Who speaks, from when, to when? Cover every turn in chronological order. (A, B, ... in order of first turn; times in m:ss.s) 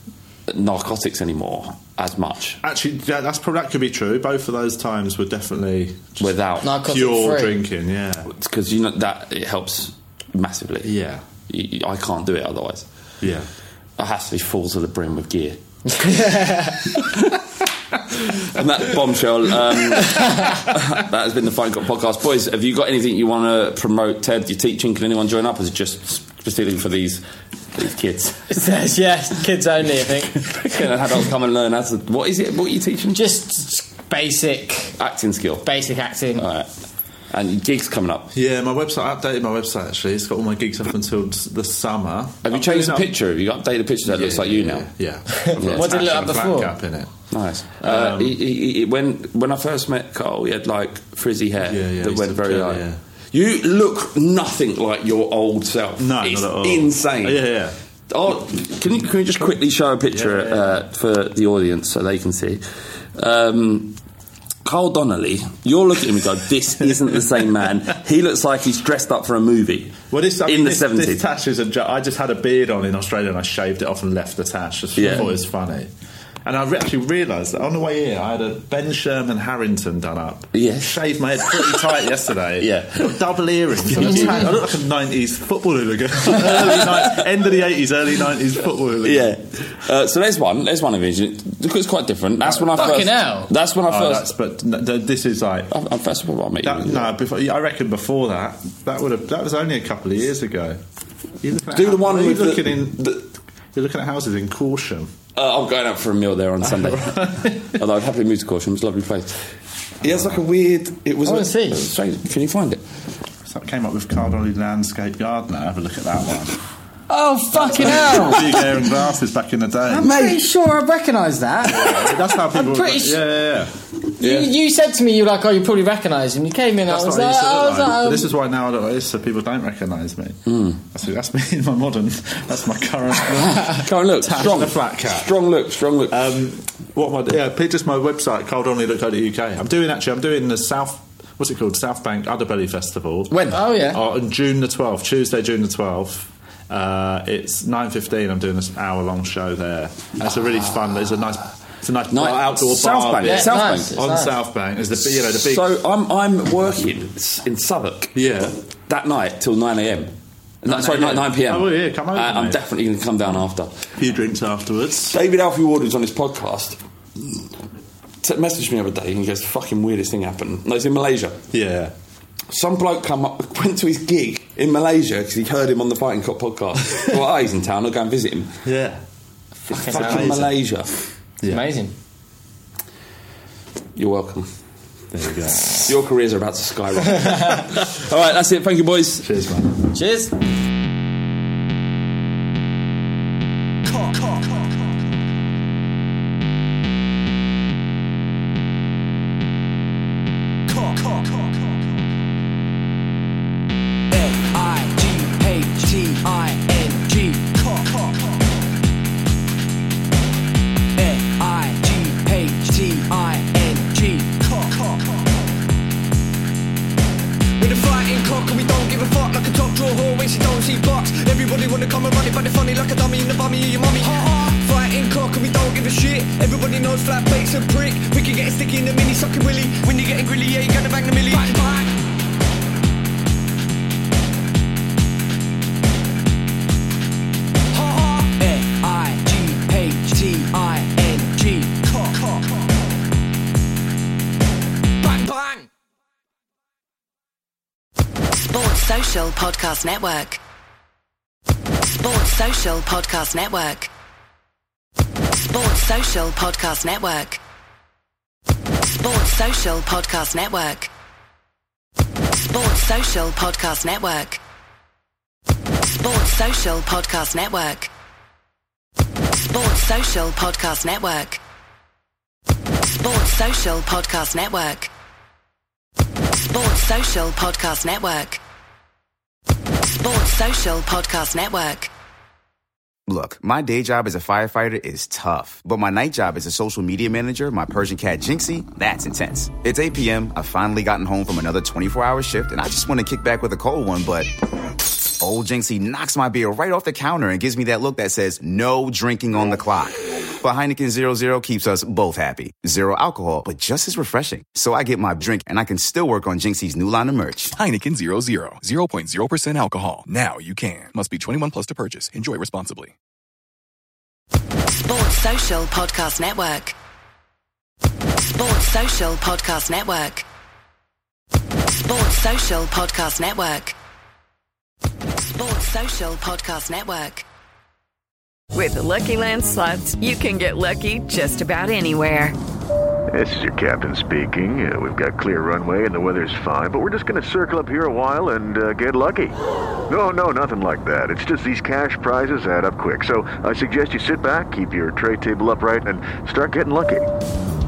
0:00.5-0:02.6 A
0:02.6-0:08.3 B
0:06.2-0:06.7 A
0:06.6-0:07.6 C
0:08.3-0:10.9 A
0:10.8-0:11.2 B
0:11.5-0:12.8 A
0:13.2-0:13.5 B
0:14.0-0:15.6 A
0:15.9-0:16.8 C
0:16.9-0:17.4 A
0:18.3-0:27.2 A
0:20.2-0:20.5 C
0:27.8-0:28.5 A
0:28.5-0:30.4 C
0:30.4-0:33.3 A
0:33.1-0:35.0 C
0:35.0-0:35.6 A
0:35.6-0:36.4 C
0:36.4-0:36.7 A
0:37.3-0:38.3 A
0:38.3-0:43.1 B
0:42.4-0:44.9 A
0:44.0-0:47.2 B
0:45.4-0:46.8 C
0:45.6-0:45.9 A
0:47.3-0:57.5 A
0:47.8-0:48.4 B
0:51.6-0:53.0 B
0:56.0-0:57.8 B
0:58.1-1:02.6 A
1:00.1-1:00.8 B
1:03.2-1:04.0 A
1:04.6-1:11.2 A
1:10.1-1:15.9 B
1:15.0-1:15.3 A
1:16.4-1:29.3 B
1:20.5-1:21.7 A
1:22.6-1:23.1 A
1:24.0-1:24.5 C
1:24.0-1:24.5 A
1:26.5-1:27.1 A
1:29.0-1:34.3 A
1:32.4-1:33.0 B
1:32.8-1:33.5 C
1:33.9-1:35.7 B
1:35.7-1:37.1 A
1:36.6-1:40.8 B
1:41.4-1:45.1 B
1:41.7-1:43.2 A
1:45.4-1:49.4 A
1:46.6-1:47.8 B
1:50.0-1:52.8 A
1:50.0-1:50.4 B
1:51.2-1:51.8 C
1:53.5-1:56.6 B
1:57.1-1:58.6 C
1:57.5-1:58.7 A
1:57.6-2:00.2 B
1:59.9-2:03.2 C
2:00.0-2:00.5 A
2:01.6-2:03.7 B
2:04.2-2:08.3 C
2:04.2-2:04.5 A
2:06.9-2:15.4 B
2:10.5-2:10.8 A
2:13.8-2:16.2 A
2:16.1-2:35.7 B
2:23.3-2:24.0 C
2:32.1-2:34.1 A
2:33.2-2:34.3 C
2:35.0-2:38.2 A
2:38.2-2:38.5 B
2:38.9-2:43.8 A
2:40.6-2:42.6 B
2:44.0-2:45.2 B
2:45.1-2:47.4 A
2:48.2-2:51.4 A
2:51.5-2:51.9 B
2:52.5-2:58.5 A
2:58.6-2:59.0 B
2:59.7-3:00.3 C
2:59.7-3:00.9 A
2:59.9-3:00.5 B
3:01.5-3:01.9 C
3:04.0-3:04.5 A
3:05.1-3:05.9 B
3:05.8-3:09.3 A
3:09.2-3:09.8 B
3:10.0-3:10.3 C
3:13.8-3:14.8 D
3:20.7-3:21.6 D
3:24.1-3:28.5 D
3:31.0-3:35.6 D
3:37.6-3:51.9 D
3:57.7-4:03.0 D
4:05.0-4:05.7 D
4:08.5-4:10.4 E
4:12.0-4:13.9 E
4:15.5-4:17.4 E
4:19.0-4:20.9 E
4:22.5-4:24.4 E
4:26.0-4:27.9 E
4:29.5-4:31.4 E
4:33.0-4:34.9 E
4:36.5-4:38.4 E
4:40.0-4:41.9 E
4:43.1-4:54.3 F
4:55.2-5:07.5 F
5:07.6-5:12.9 G
5:14.8-5:16.8 E
5:18.3-5:20.2 E
5:21.8-5:23.8 E
5:25.3-5:27.2 E
5:28.5-5:32.4 H
5:33.1-5:39.4 I
5:39.9-5:47.1 I